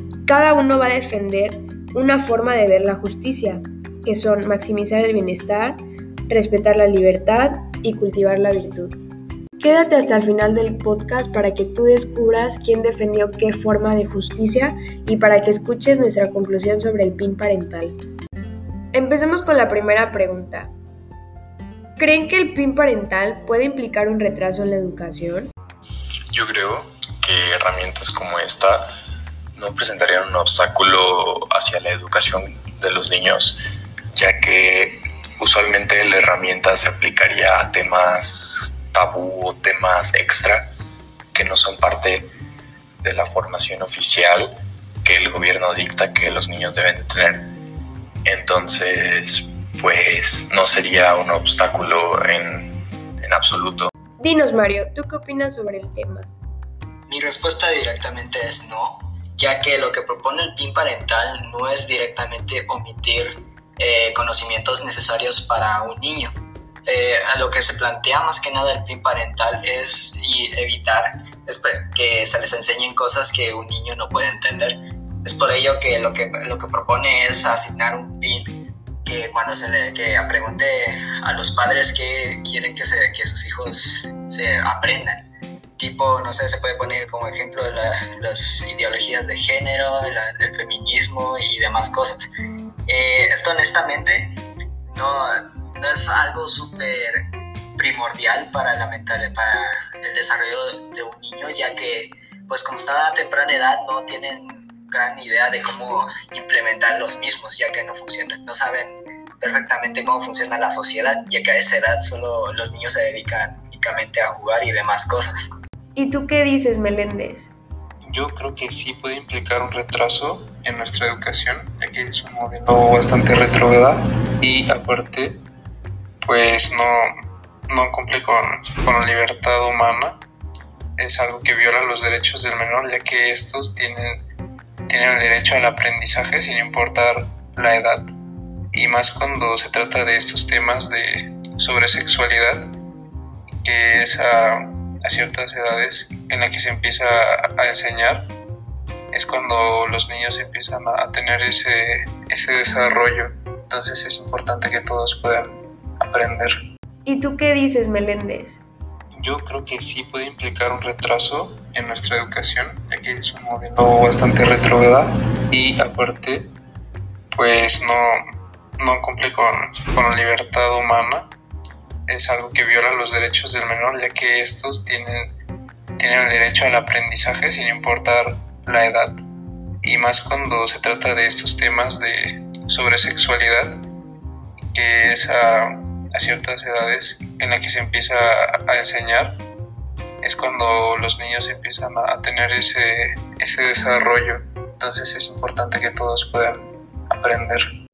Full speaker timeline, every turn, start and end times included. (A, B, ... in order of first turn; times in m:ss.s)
0:00.2-0:08.9 A
0:09.6-0:18.0 A
0:18.9-0:20.7 A
0:22.0-0:25.5 A
0:26.3-0:28.9 B
0:29.5-0:33.6 B
0:34.1-0:40.7 B
0:41.3-0:42.3 B
0:43.0-0:44.5 B
0:45.0-0:47.5 B
0:48.2-0:53.9 B
0:54.2-0:56.3 A
0:57.1-1:25.2 C
1:25.8-1:32.3 C
1:32.9-1:34.3 C
1:34.9-1:37.2 C
1:37.8-1:55.5 C
1:55.9-1:57.5 A
1:58.1-2:05.4 D
2:06.2-2:07.1 D
2:07.7-2:10.2 D
2:11.0-2:14.2 D
2:14.9-2:18.1 D
2:18.7-2:22.7 D
2:23.6-2:28.3 D
2:29.1-2:36.5 D
2:37.0-2:38.6 A
2:39.2-2:46.5 D
2:47.3-2:48.2 D
2:48.8-2:51.3 D
2:52.1-2:55.3 D
2:56.0-2:59.2 D
2:59.8-3:03.8 D
3:04.7-3:09.4 D
3:10.2-3:17.6 D